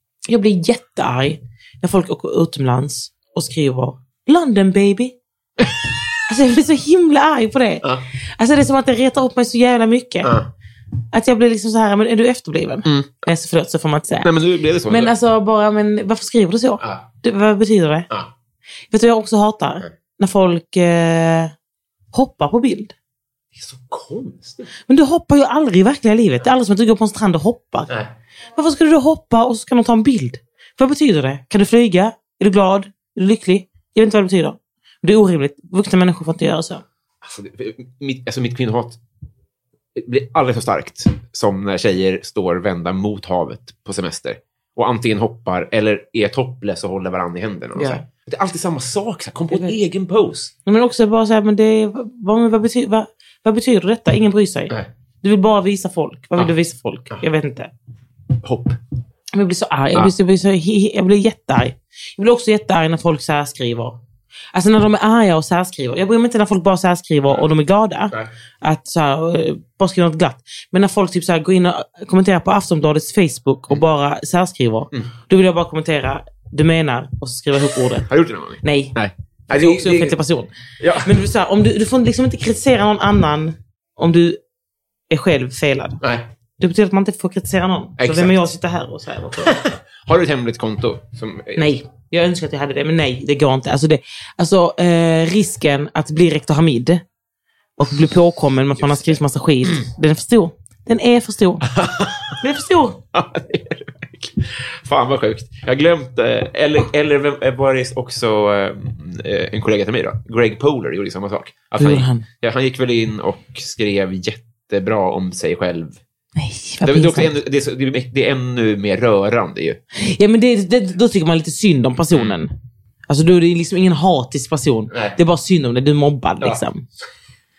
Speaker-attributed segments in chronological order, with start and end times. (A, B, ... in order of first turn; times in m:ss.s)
0:00.3-0:05.2 A
0:06.3-0:07.8 A
0:08.4-0:10.3 A
0:10.2-0:10.5 B
0:11.1-0:14.3 A
0:12.8-0:13.2 B
0:14.2-0:15.1 B
0:14.9-0:18.1 A
0:18.9-0:21.5 A
0:22.1-0:22.9 A
0:23.6-0:24.7 B
0:24.9-0:27.9 A
0:28.6-0:36.8 A
0:37.2-0:39.0 B
0:40.0-0:50.5 B
0:47.8-0:48.0 A
0:50.7-0:57.7 A
0:58.4-0:58.8 B
0:59.3-1:04.0 A
1:04.5-1:18.1 A
1:18.1-1:20.2 B
1:18.6-1:18.9 A
1:19.5-1:20.5 A
1:20.8-1:21.1 B
1:21.0-1:24.4 A
1:25.1-1:26.0 A
1:26.0-1:26.3 B
1:26.6-1:29.6 A
1:28.0-1:28.4 B
1:29.4-1:31.7 B
1:31.6-1:37.0 A
1:37.8-1:41.7 A
1:38.8-1:39.8 B
1:41.6-1:42.4 B
1:42.4-1:43.0 A
1:43.1-1:56.0 B
1:51.8-1:52.2 A
1:56.4-1:57.3 A
1:56.8-1:59.8 B
2:00.0-2:02.5 A
2:03.1-2:06.8 A
2:04.9-2:05.2 B